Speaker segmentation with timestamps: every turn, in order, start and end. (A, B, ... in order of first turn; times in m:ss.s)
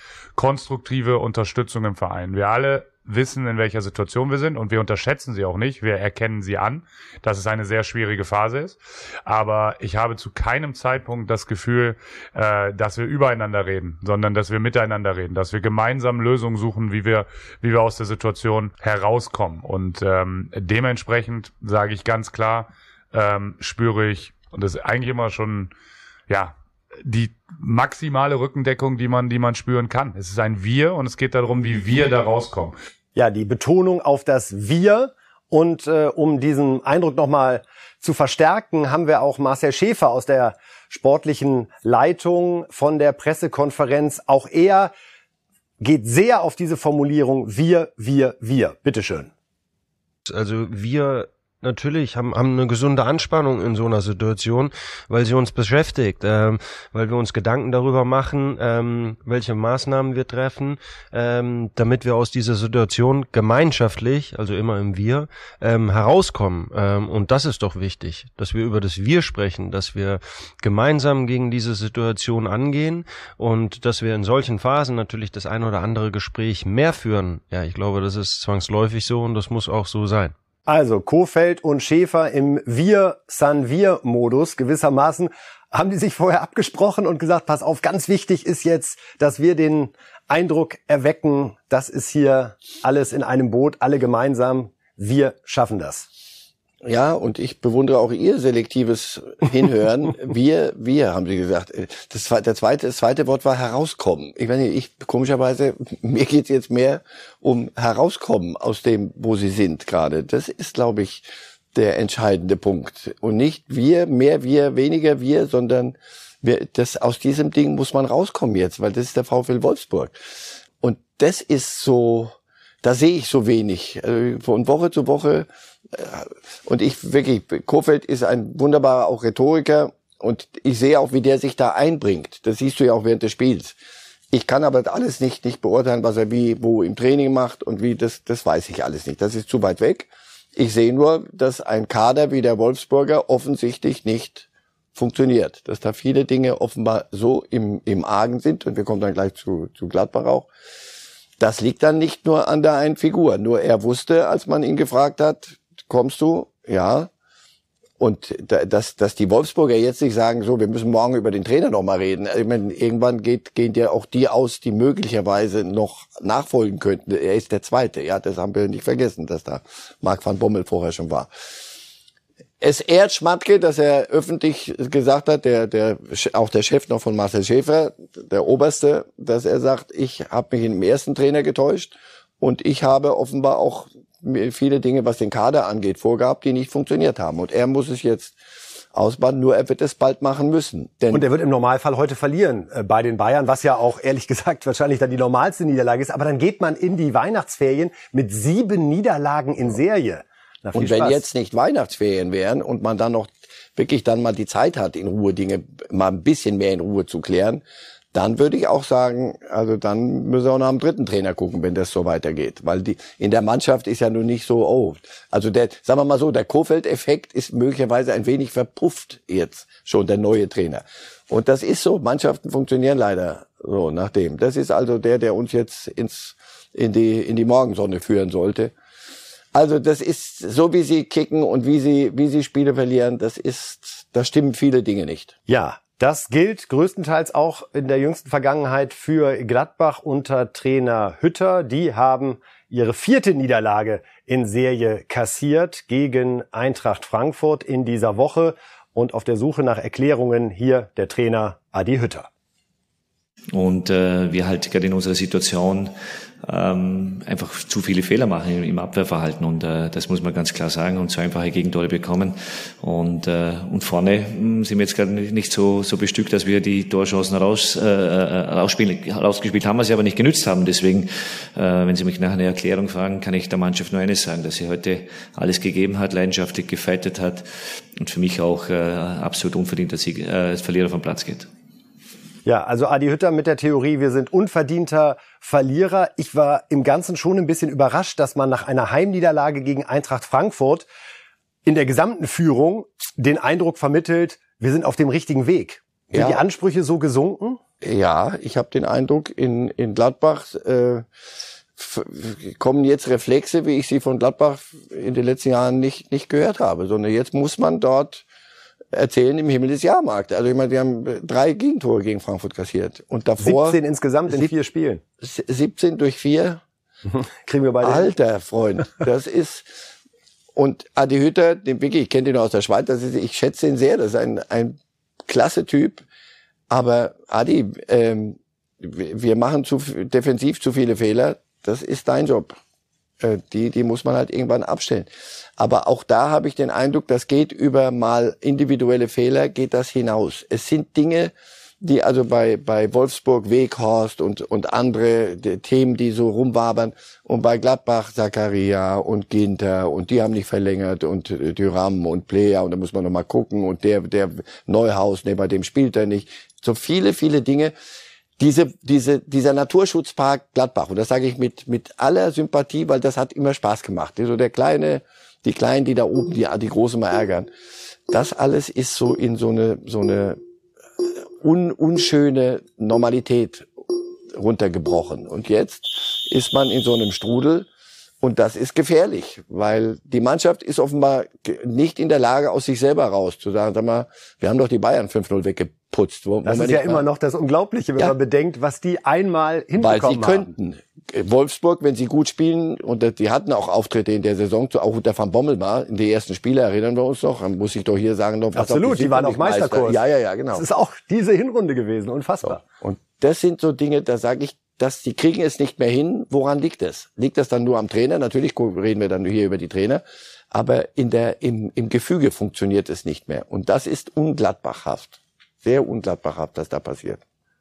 0:00.4-0:25.7 A
0:26.3-0:32.7 A
0:33.2-0:44.9 B
0:45.8-0:49.3 B
0:50.3-1:20.3 C
1:20.7-1:36.1 B
1:36.8-2:00.2 D
2:00.8-2:13.8 D
2:14.3-2:30.5 D
2:31.4-2:37.1 D
2:38.0-2:51.3 D
2:52.6-3:08.4 D
3:08.9-3:11.2 D
3:11.1-3:21.2 B
3:20.7-3:27.6 D
3:28.1-3:48.7 D
3:49.5-3:55.4 D
3:55.5-4:12.3 B
4:13.5-4:41.5 E
4:42.4-4:50.9 B
4:51.6-4:57.6 B
4:56.1-4:56.4 D
4:57.8-5:01.0 D
5:01.8-5:08.2 D
5:08.9-5:14.5 D
5:13.4-5:15.0 B
5:15.2-5:16.6 D
5:17.1-5:18.1 B
5:17.8-5:19.7 D
5:20.6-5:26.0 D
5:26.7-5:32.6 D
5:33.2-5:57.7 D
5:58.4-6:07.5 D
6:08.1-6:10.4 D
6:11.0-6:17.7 D
6:18.2-6:27.0 D
6:26.4-6:30.5 B
6:29.8-6:40.6 D
6:38.6-6:40.0 B
6:40.5-6:42.6 B
6:42.4-6:57.2 D